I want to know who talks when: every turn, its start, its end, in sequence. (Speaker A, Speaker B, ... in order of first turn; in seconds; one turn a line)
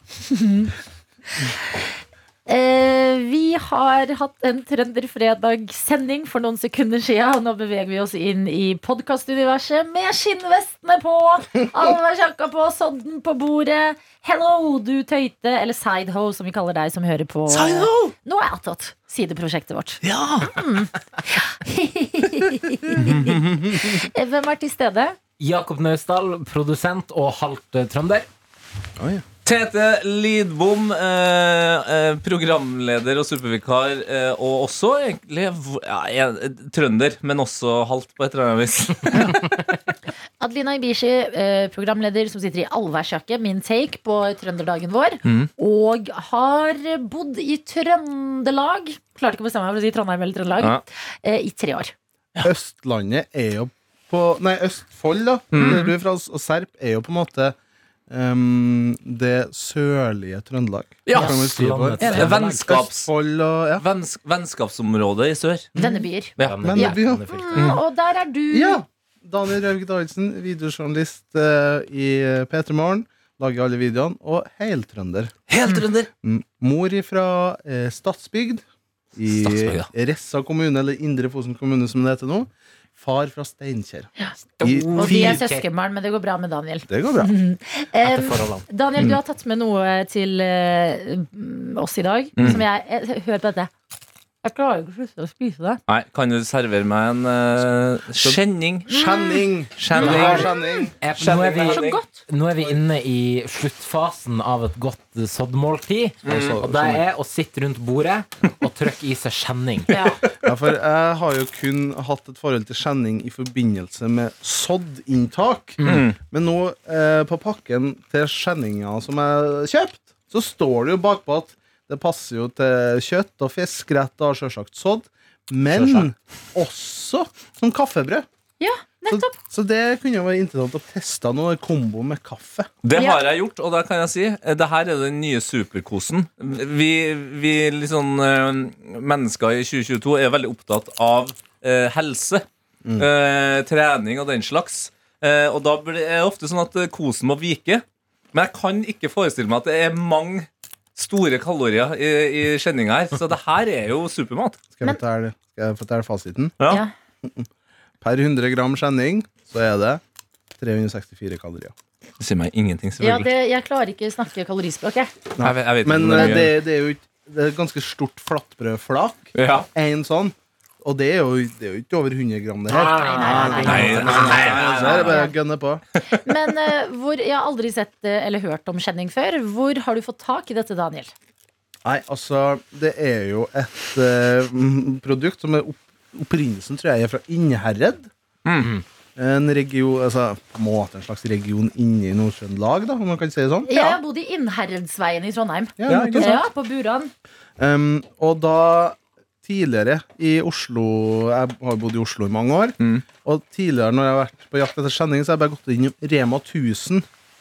Speaker A: 0.3-0.7
Speaker A: 1.4-1.8
Speaker A: 2.5-25.1
Speaker B: 17.5-18.1
Speaker B: 20.0-20.6
Speaker B: 22.9-23.9
Speaker C: 25.4-28.2
Speaker D: 29.0-29.2
Speaker B: 29.4-39.6
Speaker A: 40.4-51.9
Speaker B: 45.2-45.5
Speaker B: 50.6-50.8
Speaker D: 52.4-57.5
Speaker B: 55.5-55.9
Speaker A: 55.6-55.9
Speaker D: 58.1-63.8
Speaker B: 61.0-61.4
Speaker C: 61.1-62.8
Speaker B: 62.0-63.1
Speaker B: 63.8-65.7
Speaker D: 65.7-66.0
Speaker A: 65.8-68.8
Speaker B: 66.4-66.7
Speaker C: 66.4-67.8
Speaker D: 66.6-67.3
Speaker B: 67.5-67.8
Speaker D: 68.5-75.3
Speaker B: 75.5-76.1
Speaker D: 76.2-78.6
Speaker D: 79.1-85.4
Speaker B: 79.3-79.9
Speaker C: 84.6-85.7
Speaker A: 85.0-93.7
Speaker D: 86.9-87.3
Speaker C: 88.0-88.6
Speaker B: 92.4-92.6
Speaker A: 94.4-95.8
Speaker B: 95.9-98.9
Speaker D: 98.2-100.9
Speaker A: 98.9-100.9
Speaker B: 99.8-100.5
Speaker C: 100.0-110.0
Speaker B: 101.1-102.0
Speaker A: 101.7-102.1
Speaker D: 106.2-107.0
Speaker B: 106.2-106.6
Speaker B: 109.9-110.3
Speaker A: 109.9-110.2
Speaker D: 110.4-128.2
Speaker C: 115.8-116.0
Speaker B: 115.8-116.2
Speaker C: 125.7-126.0
Speaker A: 128.6-129.3
Speaker D: 129.1-132.7
Speaker B: 132.8-142.4
Speaker A: 132.9-133.2
Speaker B: 143.0-154.6
Speaker D: 154.8-156.5
Speaker B: 156.6-156.8
Speaker D: 157.2-157.5
Speaker D: 158.0-160.0
Speaker D: 160.6-161.7
Speaker B: 162.2-163.3
Speaker A: 163.0-165.1
Speaker D: 165.3-175.8
Speaker B: 165.4-166.5
Speaker A: 166.1-166.4
Speaker B: 169.3-169.7
Speaker C: 172.7-174.9
Speaker A: 172.9-175.3
Speaker B: 173.0-175.3
Speaker A: 176.2-181.1
Speaker D: 181.8-188.1
Speaker B: 188.4-188.7
Speaker D: 189.2-194.0
Speaker A: 193.7-197.1
Speaker D: 195.8-196.4
Speaker B: 195.8-196.4
Speaker D: 197.6-207.1